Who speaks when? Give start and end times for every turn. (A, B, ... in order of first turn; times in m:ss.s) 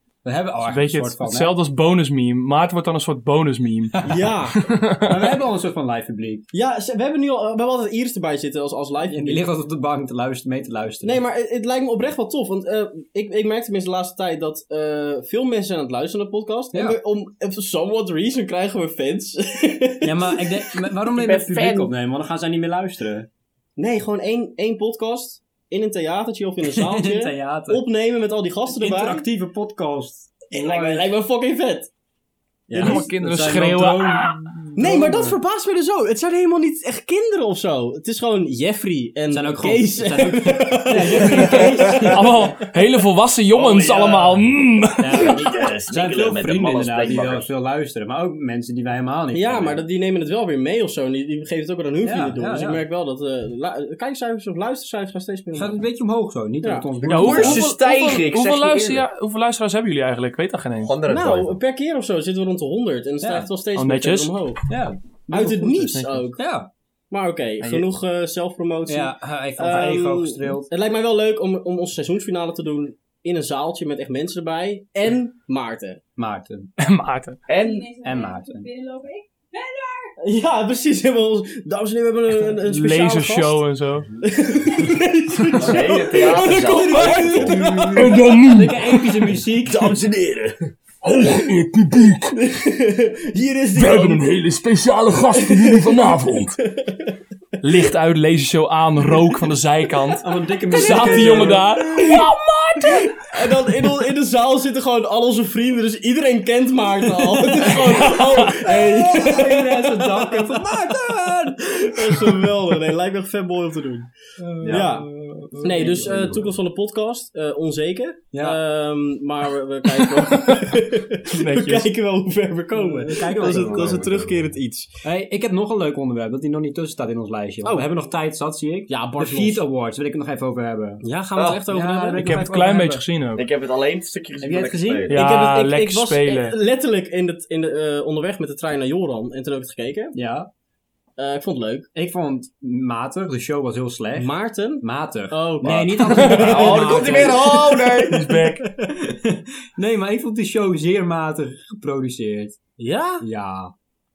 0:00.2-0:01.5 A
0:00.6-0:04.0 B
0:03.9-0:04.2 A
0:04.0-0:04.6 C
0:04.6-0:05.4 B
0:05.0-0:06.5 A
0:06.5-0:09.4 C
0:09.1-0:11.2 A
0:11.0-0:20.4 C
0:16.7-0:17.0 A
0:20.0-0:23.3 A
0:21.1-0:21.9 D
0:23.8-0:29.2 C
0:26.7-0:27.8 A
0:28.7-0:31.1 A
0:30.5-0:31.9 C
0:32.7-0:33.1 C
0:32.7-0:35.4 A
0:32.7-0:34.6 B
0:34.8-0:42.1 C
0:39.3-0:42.2 A
0:41.4-0:45.3 B
0:43.5-0:44.3 D
0:45.0-0:49.8 A
0:45.1-0:47.5 D
0:49.3-0:55.8 C
0:52.0-0:52.8 A
0:55.5-0:57.6 A
0:56.6-0:56.9 C
0:57.0-0:59.1 D
0:57.1-1:00.9 B
1:00.8-1:01.6 D
1:01.1-1:04.6 C
1:03.2-1:03.5 A
1:03.8-1:04.4 B
1:04.7-1:05.5 A
1:05.3-1:06.4 C
1:05.4-1:06.2 B
1:06.4-1:06.7 A
1:07.1-1:16.0 C
1:08.9-1:10.7 A
1:16.2-1:16.7 A
1:16.8-1:17.4 B
1:17.5-1:17.9 D
1:17.5-1:20.1 E
1:18.0-1:18.7 A
1:20.2-1:23.6 C
1:22.7-1:24.1 B
1:24.2-1:28.2 C
1:25.6-1:27.7 D
1:26.2-1:30.0 A
1:28.0-1:28.8 B
1:29.6-1:30.7 D
1:31.2-1:32.2 B
1:32.2-1:34.3 C
1:33.8-1:36.5 B
1:35.2-1:37.2 C
1:37.6-1:43.1 B
1:40.2-1:41.9 A
1:40.7-1:54.1 C
1:47.4-1:52.4 A
1:47.6-1:48.6 B
1:54.4-1:56.3 A
1:54.6-1:54.9 D
1:54.6-1:55.1 C
1:55.5-1:56.5 D
1:55.6-2:05.0 C
1:58.3-1:58.6 A
2:01.3-2:01.9 B
2:02.7-2:04.0 A
2:03.4-2:04.5 D
2:05.0-2:11.0 A
2:08.9-2:09.6 C
2:11.0-2:12.5 C
2:11.4-2:11.6 D
2:11.7-2:13.0 A
2:12.2-2:13.4 B
2:13.3-2:15.2 D
2:14.4-2:15.1 A
2:15.1-2:16.6 B
2:15.1-2:20.1 C
2:20.1-2:20.5 A
2:21.2-2:21.9 C
2:21.9-2:27.5 A
2:24.1-2:28.1 C
2:25.6-2:28.2 D
2:26.1-2:26.7 B
2:28.1-2:28.6 B
2:29.0-2:32.6 A
2:32.8-2:33.2 C
2:33.2-2:33.7 A